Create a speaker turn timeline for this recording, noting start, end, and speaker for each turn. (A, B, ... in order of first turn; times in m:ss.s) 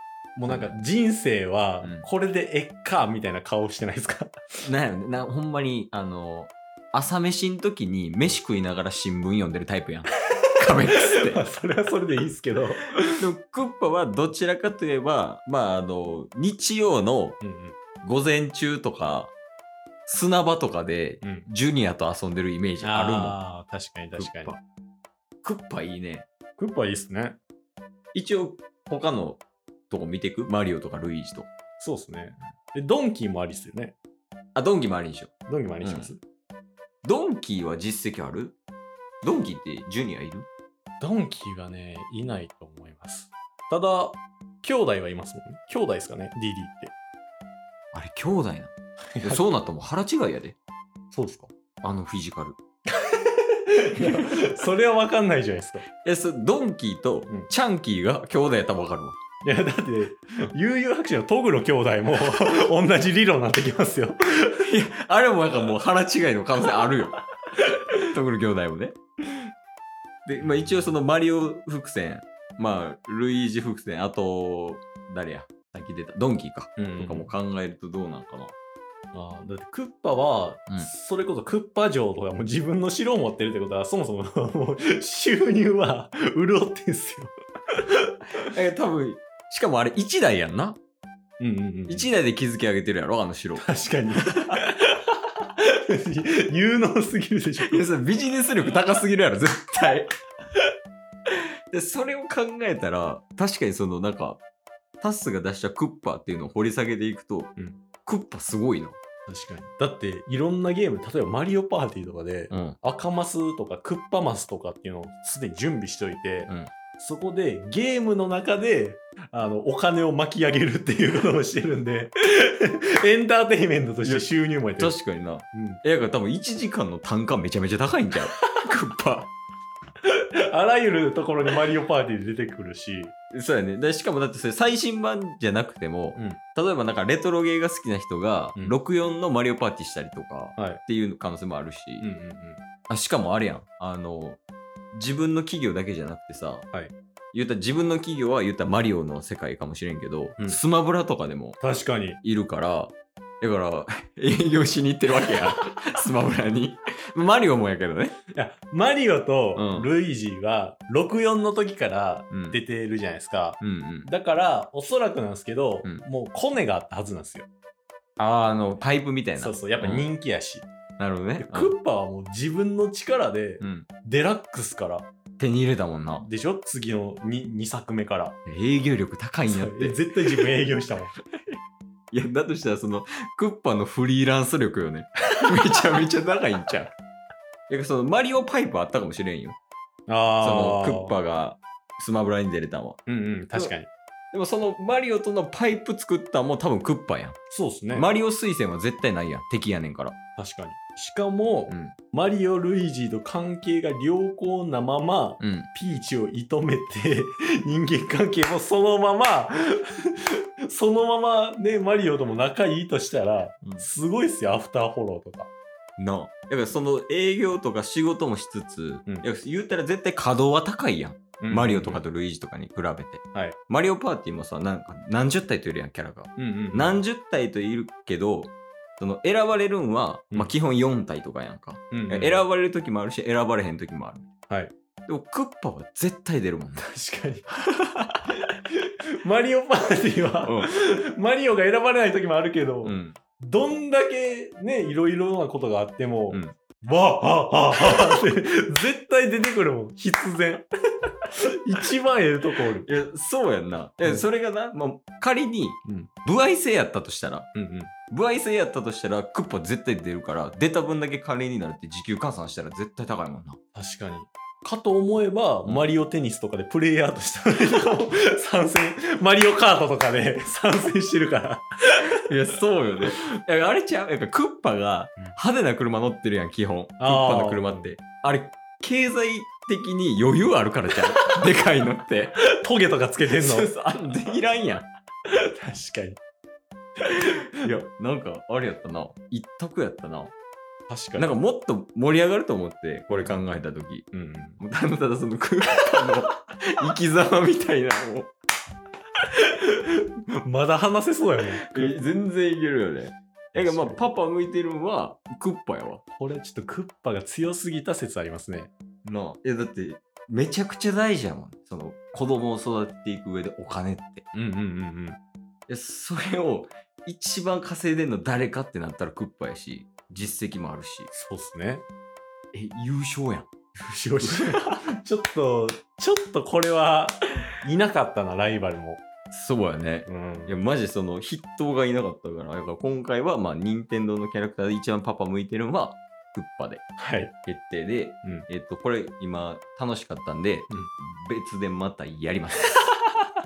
0:00.3-0:04.4 A
0:00.4-0:00.8 B
0:01.8-0:02.1 B
0:04.6-0:11.4 B
0:10.8-0:13.0 A
0:13.2-0:17.4 B
0:17.4-0:17.8 A
0:18.0-0:19.3 B
0:20.1-0:23.4 B
0:21.2-0:21.5 A
0:22.8-0:24.6 A
0:24.2-0:24.6 B
0:25.4-0:26.2 B
0:26.6-0:27.4 A
0:28.1-0:31.5 B
0:31.8-0:34.0 A
0:34.5-0:36.1 B
0:35.5-0:36.2 A
0:37.0-0:38.5 B
0:39.2-0:40.4 B
0:41.0-0:46.9 A
0:47.9-0:50.6 B
0:49.2-0:49.4 A
0:51.1-0:51.5 A
0:51.8-0:52.6 B
0:53.0-0:55.8 A
0:54.1-0:54.5 B
0:56.0-0:59.2 B
0:59.4-1:04.6 A
1:04.5-1:07.2 B
1:07.8-1:09.5 B
1:10.2-1:18.5 B
1:16.8-1:17.3 A
1:19.1-1:27.3 A
1:28.4-1:30.8 B
1:31.4-1:32.1 A
1:31.9-1:33.7 B
1:33.6-1:37.8 A
1:34.2-1:34.6 B
1:37.6-1:40.1 B
1:41.3-1:44.4 B
1:45.0-1:47.5 B
1:48.0-1:49.0 B
1:49.3-2:04.9 A
1:52.5-1:52.8 B
1:56.5-1:56.7 B
2:04.0-2:09.3 B
2:05.5-2:05.8 A
2:10.0-2:13.1 A
2:13.3-2:22.1 B
2:16.1-2:16.4 A
2:20.6-2:20.8 A
2:22.0-2:22.6 A
2:22.9-2:24.4 B
2:24.9-2:26.7 B
2:27.3-2:31.6 B
2:31.6-2:32.2 A
2:32.2-2:38.2 B
2:38.3-2:47.4 A
2:39.5-2:39.9 B
2:42.3-2:42.6 B
2:43.6-2:44.1 B
2:48.2-2:50.0 B
2:49.4-2:50.6 A
2:51.0-2:51.7 B
2:51.4-2:55.1 A
2:53.6-2:53.9 B
2:55.4-2:56.3 B
2:56.2-2:58.4 A
2:58.4-3:00.5 B
2:59.5-3:01.1 A
3:02.1-3:06.9 B
3:07.7-3:09.6 B
3:10.1-3:11.1 A
3:10.4-3:13.0 B
3:13.0-3:13.9 A
3:14.3-3:17.4 B
3:17.5-3:18.1 A
3:17.9-3:20.1 B
3:20.4-3:30.1 A
3:21.7-3:22.0 B
3:25.4-3:25.7 B
3:30.6-3:35.5 A
3:36.0-3:54.3 B
3:41.4-3:42.0 A
3:46.4-3:47.0 A
3:51.9-3:52.4 A
3:55.1-3:56.9 B
3:56.9-3:57.5 A
3:58.9-4:10.6 A
4:00.4-4:00.7 B
4:02.8-4:03.2 B
4:06.3-4:06.6 B
4:11.3-4:12.9 A
4:12.8-4:17.5 B
4:15.8-4:16.1 A
4:17.5-4:17.9 A
4:18.1-4:23.6 B
4:23.7-4:32.0 A
4:25.6-4:25.9 B
4:32.2-4:42.3 B
4:37.0-4:38.0 A
4:42.6-4:43.7 A
4:43.3-4:44.8 B
4:45.3-4:46.2 A
4:47.1-4:50.3 B
4:47.2-4:47.4 A
4:50.9-4:51.3 A
4:51.2-4:54.0 B
4:53.1-4:53.4 A
4:54.1-4:54.6 A
4:54.6-4:58.3 B
4:59.5-5:02.0 A
5:01.6-5:06.0 B
5:03.5-5:04.0 A
5:06.1-5:08.7 A
5:09.0-5:14.2 B
5:14.3-5:15.2 A
5:15.7-5:21.1 B
5:21.1-5:21.8 A
5:22.5-5:23.5 B
5:23.8-5:29.0 A
5:24.2-5:24.8 B
5:29.3-5:36.8 B
5:30.1-5:30.6 A
5:37.0-5:37.3 A
5:37.4-5:42.7 B